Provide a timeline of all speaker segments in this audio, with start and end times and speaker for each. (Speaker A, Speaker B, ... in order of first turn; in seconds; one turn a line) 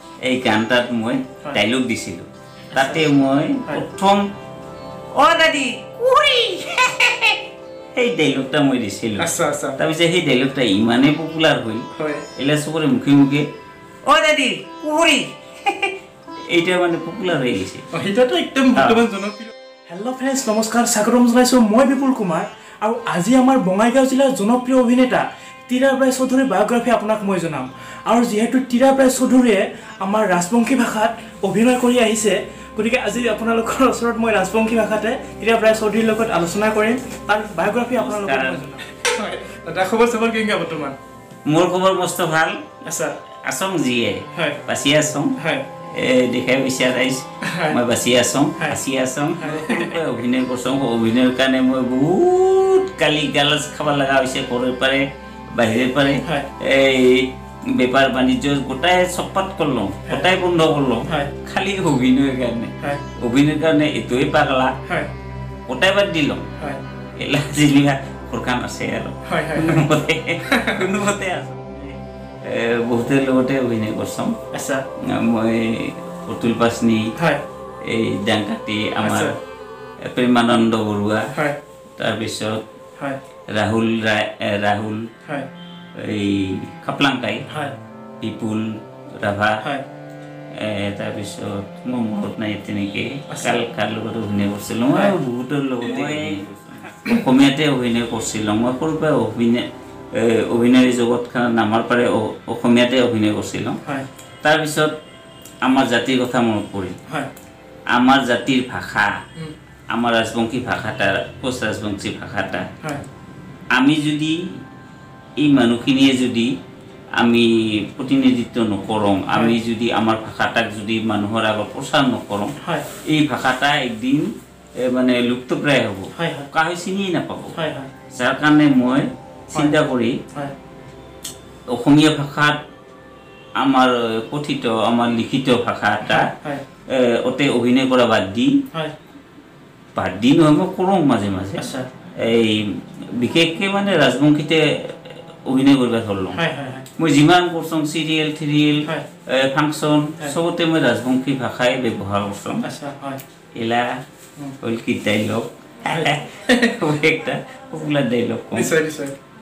Speaker A: 0.2-4.2
Speaker B: 2.7-3.0
Speaker C: 5.1-7.4
Speaker A: 8.0-13.5
Speaker B: 9.2-9.8
Speaker B: 11.9-12.3
Speaker C: 14.1-15.9
Speaker A: 16.5-17.8
Speaker B: 17.9-41.0
Speaker A: 18.8-19.0
Speaker A: 37.9-38.7
Speaker A: 41.5-42.7
Speaker B: 42.8-43.2
Speaker A: 43.4-45.3
Speaker B: 44.3-44.6
Speaker B: 45.4-45.7
Speaker A: 45.9-64.8
Speaker B: 47.4-47.8
Speaker B: 49.4-50.0
Speaker A: 65.7-66.5
Speaker A: 67.2-74.4
Speaker B: 69.3-69.8
Speaker B: 70.5-70.9
Speaker B: 74.5-74.8
Speaker A: 75.0-77.1
Speaker B: 77.2-77.4
Speaker A: 77.8-79.4
Speaker B: 79.0-79.4
Speaker A: 80.0-81.3
Speaker B: 81.3-81.6
Speaker A: 82.0-82.6
Speaker A: 83.5-85.1
Speaker A: 86.0-87.4
Speaker B: 87.5-87.8
Speaker A: 88.2-89.6
Speaker A: 90.5-103.8
Speaker B: 93.3-93.6
Speaker B: 95.8-96.4
Speaker B: 96.9-97.2
Speaker A: 104.4-104.9
Speaker A: 105.7-107.0
Speaker A: 107.9-109.1
Speaker A: 109.9-112.7
Speaker A: 113.7-114.6
Speaker A: 115.4-116.5
Speaker A: 117.2-122.5
Speaker B: 122.6-122.9
Speaker A: 123.0-124.3
Speaker A: 124.8-127.6
Speaker B: 126.2-126.5
Speaker B: 127.5-127.9
Speaker A: 128.1-130.2
Speaker A: 131.7-132.6
Speaker A: 133.6-136.3
Speaker B: 136.0-136.7
Speaker A: 136.9-138.6
Speaker A: 139.9-146.4
Speaker B: 141.6-141.9
Speaker B: 146.3-146.9
Speaker A: 147.0-152.7
Speaker B: 152.6-153.2
Speaker A: 153.6-154.0
Speaker A: 154.6-158.7
Speaker B: 155.9-156.8
Speaker B: 158.5-159.2